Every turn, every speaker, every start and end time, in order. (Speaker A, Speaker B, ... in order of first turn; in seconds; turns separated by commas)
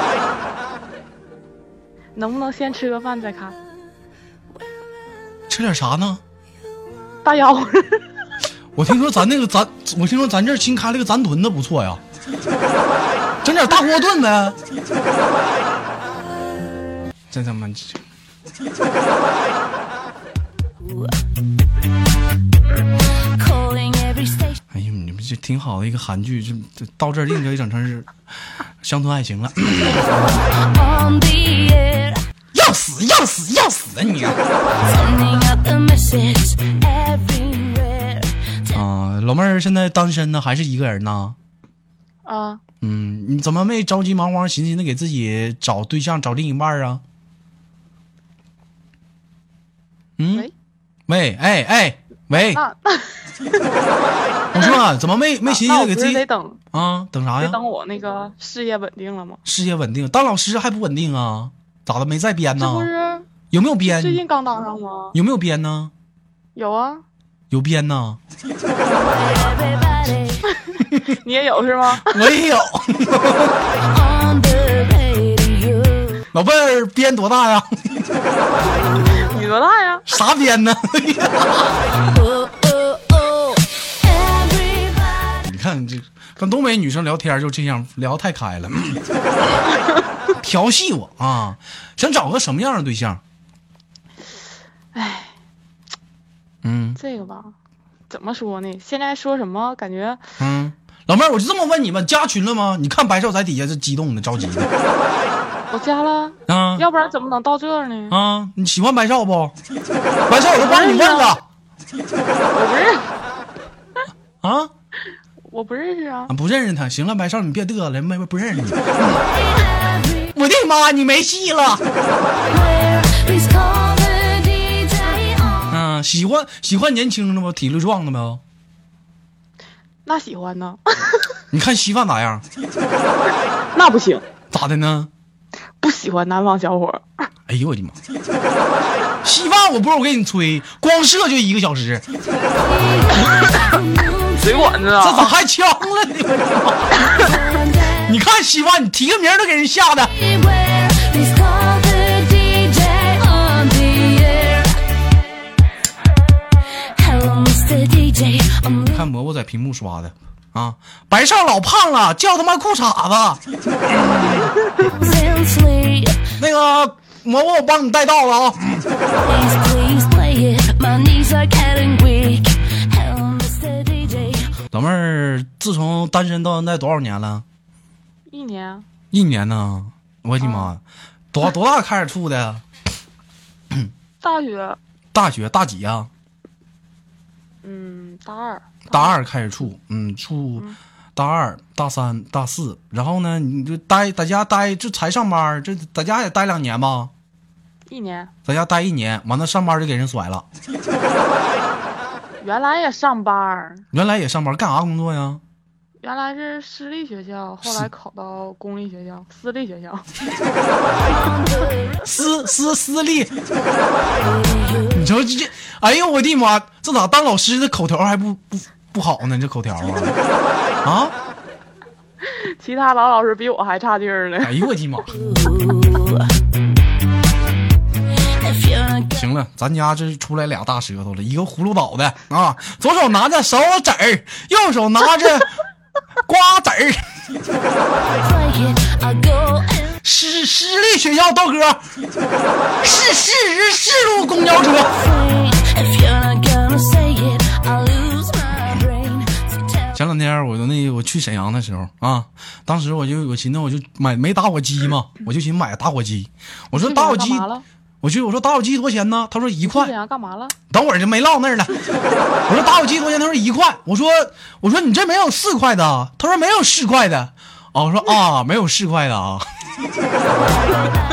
Speaker A: 2.1-3.6, Speaker B: 5.5-6.2, Speaker A: 7.2-8.1, Speaker B: 8.8-12.0, Speaker B: 13.4-14.6, Speaker B: 17.3-18.0, Speaker C: 20.8-21.2, Speaker C: 23.4-24.6, Speaker B: 24.7-28.1, Speaker B: 28.8-30.1, Speaker C: 30.1-32.2, Speaker B: 32.5-34.4, Speaker C: 34.8-38.8, Speaker B: 38.7-41.4, Speaker A: 42.2-42.6, Speaker B: 42.8-47.0, Speaker B: 50.2-50.5, Speaker B: 51.1-52.6, Speaker A: 52.3-53.3, Speaker B: 54.5-57.6, Speaker A: 55.5-56.6, Speaker A: 57.4-59.4, Speaker B: 59.5-62.9, Speaker A: 62.6-63.3, Speaker B: 63.5-64.2, Speaker A: 63.9-65.2, Speaker B: 65.1-65.9, Speaker A: 66.6-67.0, Speaker B: 67.5-68.2, Speaker C: 68.9-70.4, Speaker A: 70.7-72.2, Speaker B: 72.0-73.6, Speaker C: 73.8-76.2, Speaker B: 76.3-77.7, Speaker A: 79.1-80.0, Speaker B: 80.1-81.9, Speaker C: 82.0-85.2, Speaker B: 85.4-89.0, Speaker B: 90.4-93.2, Speaker A: 94.9-95.3, Speaker B: 96.6-97.0, Speaker A: 97.0-97.5, Speaker A: 98.1-100.2, Speaker B: 100.4-104.7, Speaker A: 105.7-108.2, Speaker B: 106.5-106.9, Speaker B: 108.1-109.6, Speaker B: 110.3-111.4, Speaker A: 110.6-111.4, Speaker A: 112.5-113.1, Speaker B: 114.4-114.7, Speaker A: 115.5-116.3, Speaker B: 116.3-119.3, Speaker C: 119.6-120.2, Speaker B: 120.3-121.8, Speaker C: 122.5-125.7, Speaker B: 125.7-128.4, Speaker A: 130.1-131.3, Speaker B: 131.5-132.4, Speaker A: 133.7-134.2, Speaker B: 134.5-135.1, Speaker A: 135.8-137.2, Speaker B: 137.5-138.0, Speaker B: 139.2-142.1, Speaker C: 142.8-144.4, Speaker A: 144.3-145.3, Speaker B: 145.0-147.3, Speaker C: 147.2-148.0, Speaker B: 148.0-150.1, Speaker C: 150.2-154.8, Speaker C: 156.9-159.0, Speaker B: 158.8-164.5, Speaker C: 164.8-166.3, Speaker B: 166.4-168.8, Speaker C: 169.2-174.5, Speaker B: 174.7-177.4, Speaker A: 178.3-178.8, Speaker B: 179.1-180.8, Speaker A: 180.4-180.7, Speaker B: 181.3-182.6, Speaker A: 184.2-184.8, Speaker B: 185.1-186.1, Speaker A: 187.6-189.2, Speaker B: 188.9-197.1, Speaker A: 197.9-198.3, Speaker B: 198.5-200.4, Speaker A: 202.4-203.9, Speaker B: 203.9-205.4, Speaker A: 206.0-210.1, Speaker C: 211.1-212.1, Speaker B: 212.1-213.3, Speaker C: 214.3-214.9, Speaker B: 214.9-220.2, Speaker B: 220.8-221.2, Speaker A: 222.3-224.6, Speaker B: 224.4-225.1, Speaker C: 225.1-226.3, Speaker C: 228.3-229.2, Speaker B: 229.2-235.5, Speaker B: 236.3-237.0, Speaker C: 238.1-239.9, Speaker B: 240.0-241.8, Speaker B: 242.8-245.0, Speaker C: 245.0-249.9, Speaker B: 249.9-257.5, Speaker A: 256.7-257.6, Speaker B: 258.0-259.9, Speaker A: 259.6-260.6, Speaker B: 260.7-261.7, Speaker B: 262.5-269.4